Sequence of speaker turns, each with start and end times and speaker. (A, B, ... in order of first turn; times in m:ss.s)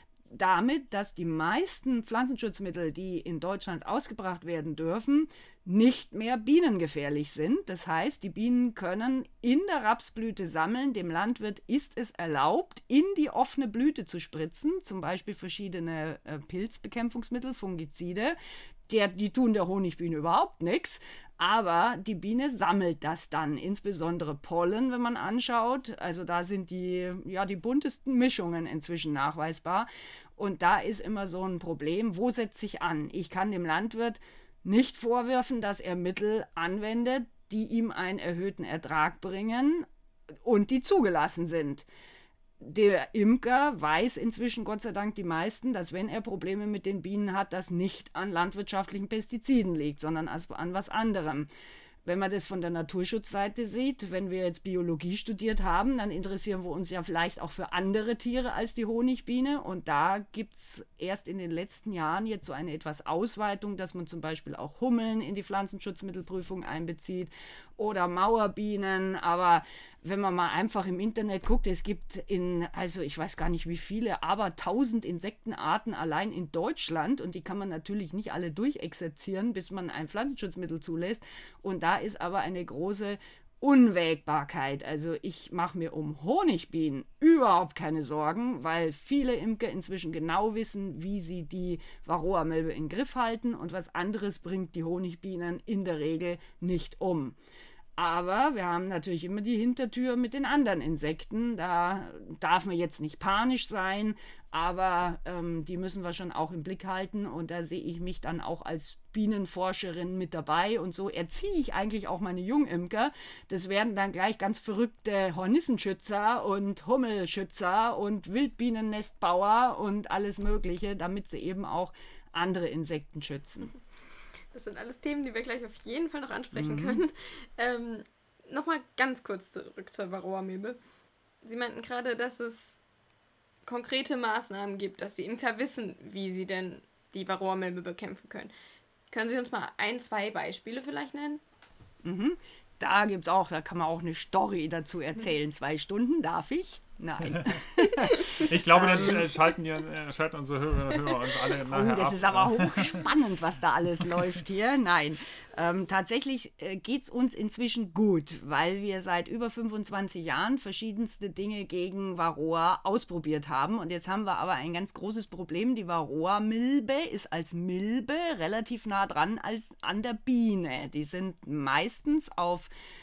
0:00.3-0:18.4 A
0:18.9-0:39.9 A
0:40.4-0:41.8 A
0:42.6-0:51.5 A
0:52.0-1:37.4 A
1:38.0-2:03.7 A
2:04.5-2:10.8 B
2:06.5-2:07.0 A
2:11.4-2:12.8 B
2:13.6-2:18.5 B
2:19.1-2:21.4 B
2:22.0-2:29.3 A
2:28.1-2:33.0 C
2:31.6-2:52.7 A